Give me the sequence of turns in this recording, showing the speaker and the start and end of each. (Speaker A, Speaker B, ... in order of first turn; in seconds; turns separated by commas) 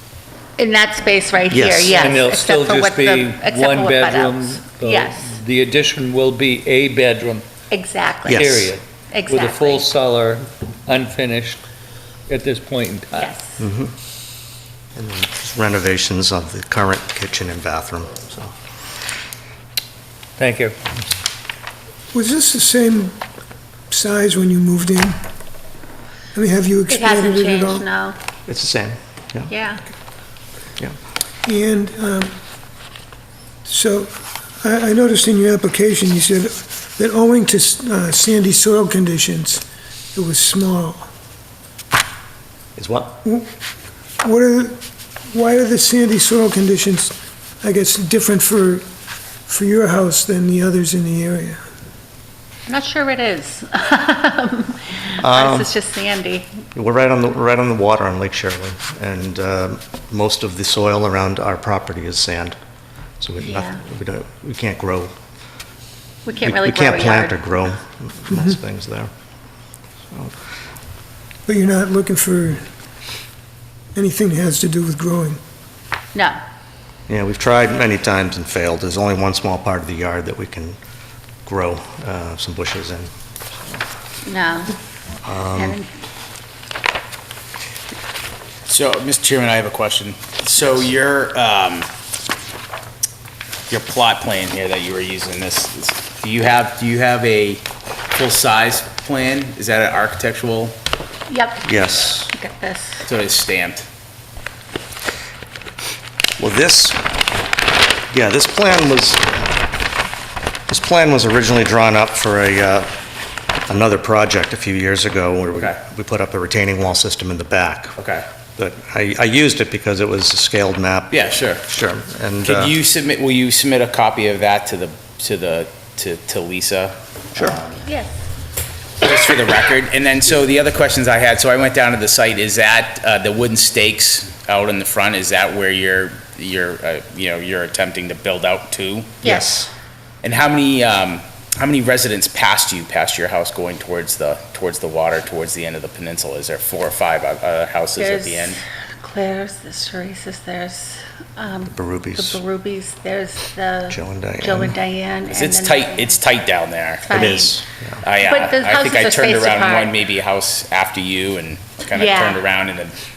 Speaker A: 0.6-5.4, Speaker B: 1.5-2.1, Speaker C: 1.9-7.5, Speaker A: 7.7-8.4, Speaker B: 8.3-8.7, Speaker C: 8.3-11.6, Speaker A: 9.1-9.9, Speaker C: 12.3-13.4, Speaker A: 13.2-13.4, Speaker B: 13.6-13.9, Speaker B: 14.9-18.5, Speaker C: 20.4-20.8, Speaker D: 22.1-23.2, Speaker D: 23.9-25.2, Speaker D: 26.3-27.9, Speaker A: 26.9-28.2, Speaker B: 28.5-29.5, Speaker A: 29.5-29.8, Speaker D: 31.4-32.4, Speaker D: 33.6-39.6, Speaker D: 40.1-41.1, Speaker B: 42.8-43.2, Speaker D: 44.2-48.9, Speaker D: 49.5-51.6, Speaker A: 52.7-56.5, Speaker B: 55.2-55.7, Speaker B: 56.8-62.6, Speaker B: 63.2-65.1, Speaker A: 63.4-63.8, Speaker A: 66.2-67.4, Speaker B: 66.4-69.1, Speaker D: 71.5-72.6, Speaker D: 74.0-75.4, Speaker B: 77.1-80.8, Speaker B: 81.5-83.1, Speaker A: 84.2-84.7, Speaker B: 85.2-85.8, Speaker A: 85.5-85.9, Speaker E: 88.7-91.9, Speaker E: 93.7-100.8, Speaker A: 101.3-103.0, Speaker B: 101.6-102.3, Speaker E: 103.0-103.9, Speaker B: 106.4-107.0, Speaker B: 108.1-109.5, Speaker B: 110.7-112.9, Speaker B: 113.7-118.0, Speaker E: 118.0-118.3, Speaker B: 118.6-122.8, Speaker E: 121.1-121.6, Speaker E: 122.4-127.8, Speaker A: 127.8-128.1, Speaker E: 129.0-139.5, Speaker B: 139.2-139.7, Speaker A: 139.2-139.5, Speaker E: 140.2-148.6, Speaker A: 148.0-156.2, Speaker B: 151.7-152.4, Speaker B: 153.9-154.8, Speaker E: 155.3-157.5, Speaker A: 157.0-157.6, Speaker B: 157.1-158.0, Speaker E: 158.0-162.9, Speaker A: 158.2-160.0, Speaker A: 161.9-162.4